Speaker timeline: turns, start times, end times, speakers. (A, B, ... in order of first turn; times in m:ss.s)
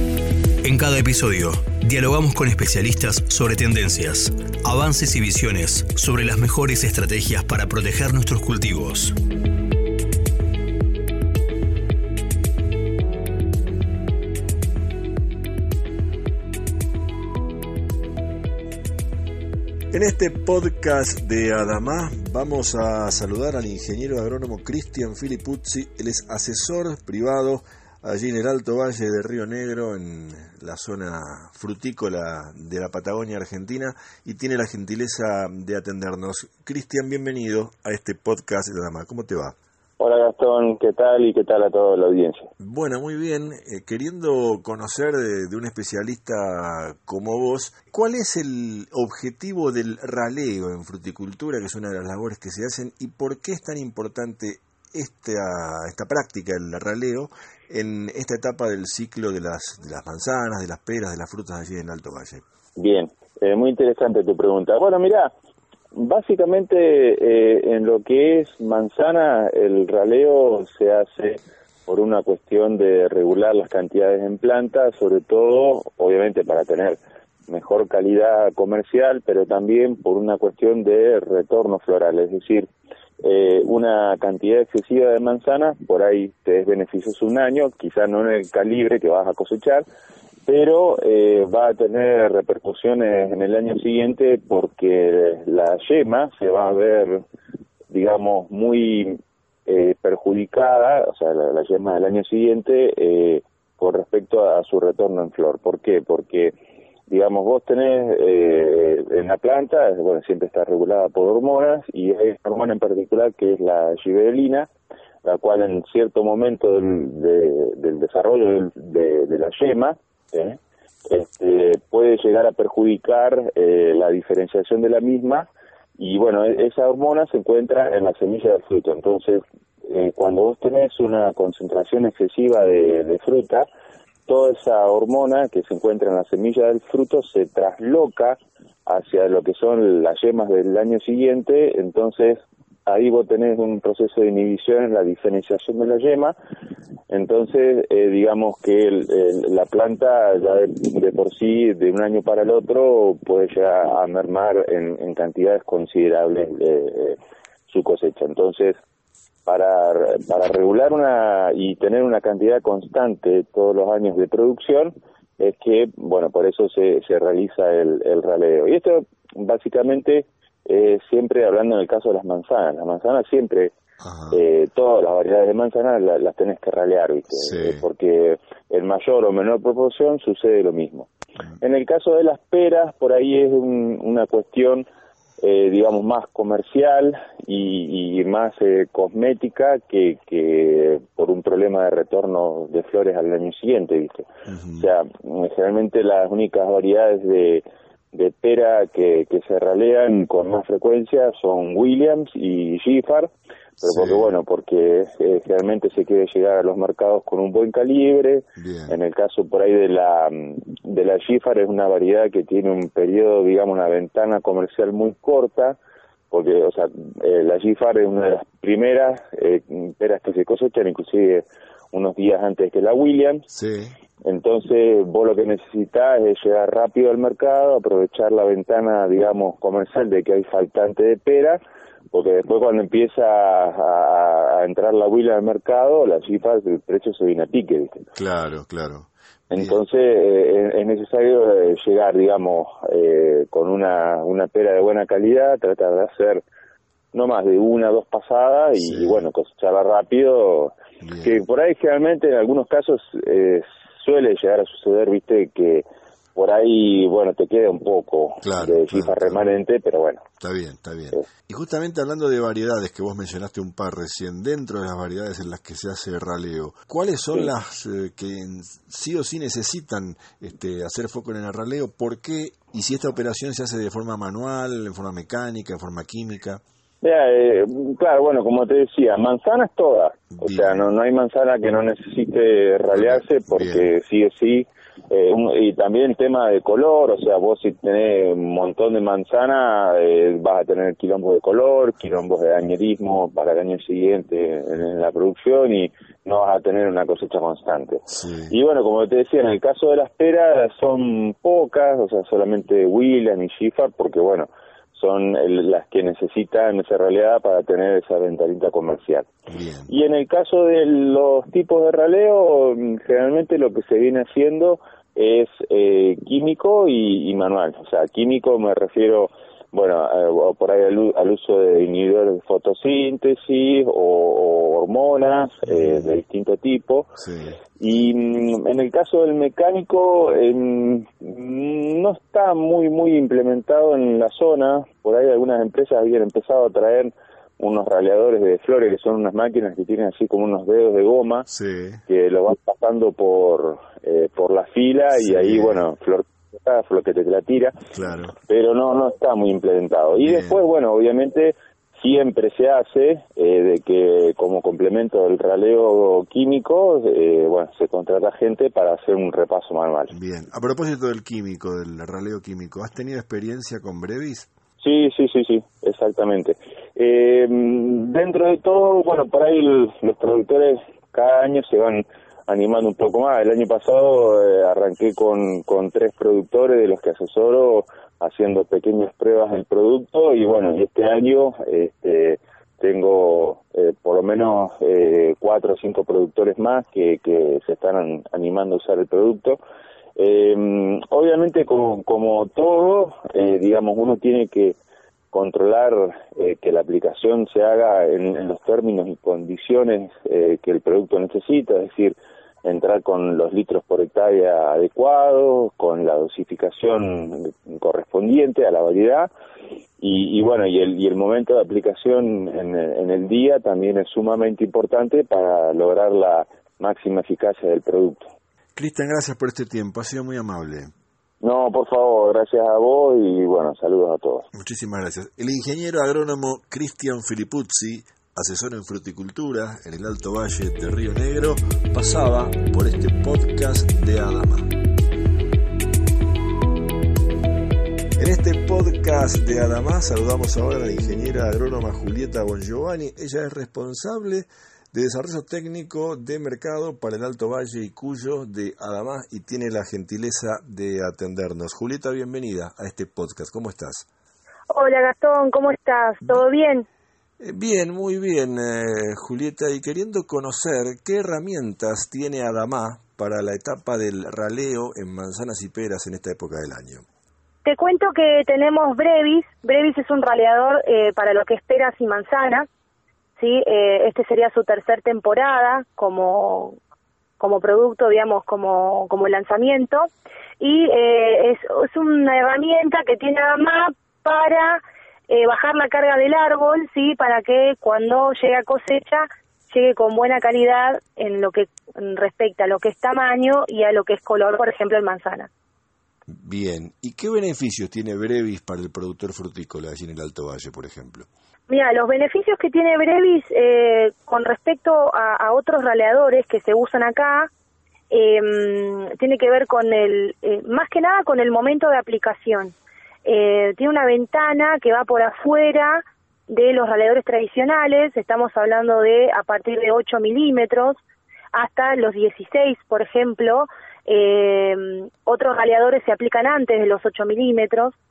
0:00.6-0:09.2 A
0:19.9-0:39.5 B
0:40.0-0:42.5 C
0:42.6-1:02.4 B
1:02.8-1:05.3 C
1:05.9-1:22.7 C
1:23.2-1:29.8 C
1:30.4-1:37.2 C
1:37.9-1:46.5 C
1:47.1-1:54.7 C
1:55.2-2:13.7 C
2:14.3-2:26.3 C
2:27.1-2:38.8 C
2:39.4-2:53.7 C
2:54.0-2:54.4 B
2:54.3-3:04.9 C
2:57.5-2:57.8 B
3:05.4-3:35.8 C
3:14.5-3:14.8 B
3:23.8-3:24.3 B
3:28.6-3:29.0 B
3:36.3-3:43.5 C
3:43.5-3:43.9 B
3:44.2-3:51.6 C
3:52.1-3:58.0 C
3:58.2-3:59.8 B
3:59.5-4:06.4 C
4:07.1-4:20.2 C
4:08.8-4:09.2 B
4:11.0-4:11.4 B
4:18.4-4:19.4 B
4:20.4-4:36.6 B
4:37.0-5:09.3 C
4:40.4-4:40.9 B
4:42.9-4:43.9 B
4:58.1-4:58.5 B
5:09.5-5:09.9 B
5:09.9-5:27.2 C
5:25.6-5:26.0 B
5:27.2-5:27.6 B
5:27.8-5:41.5 C
5:41.5-5:42.0 B
5:42.1-5:47.7 C
5:45.1-5:45.8 B
5:47.9-5:48.3 B
5:48.5-6:00.1 C
5:50.2-5:50.6 B
6:00.1-6:04.5 B
6:04.8-6:29.6 C
6:30.2-6:34.8 C
6:35.3-6:49.3 C
6:50.0-6:58.3 C
6:58.8-7:00.9 B
7:01.4-7:04.5 C
7:04.5-7:14.7 B
7:18.2-7:34.0 B
7:34.7-7:36.9 D
7:37.4-7:47.0 B
7:47.6-7:52.6 D
7:53.4-7:56.8 D
7:57.4-8:00.1 D
8:00.6-8:15.5 D
8:16.3-8:21.3 B
8:21.7-8:27.5 D
8:28.1-8:41.0 D
8:41.5-8:48.0 D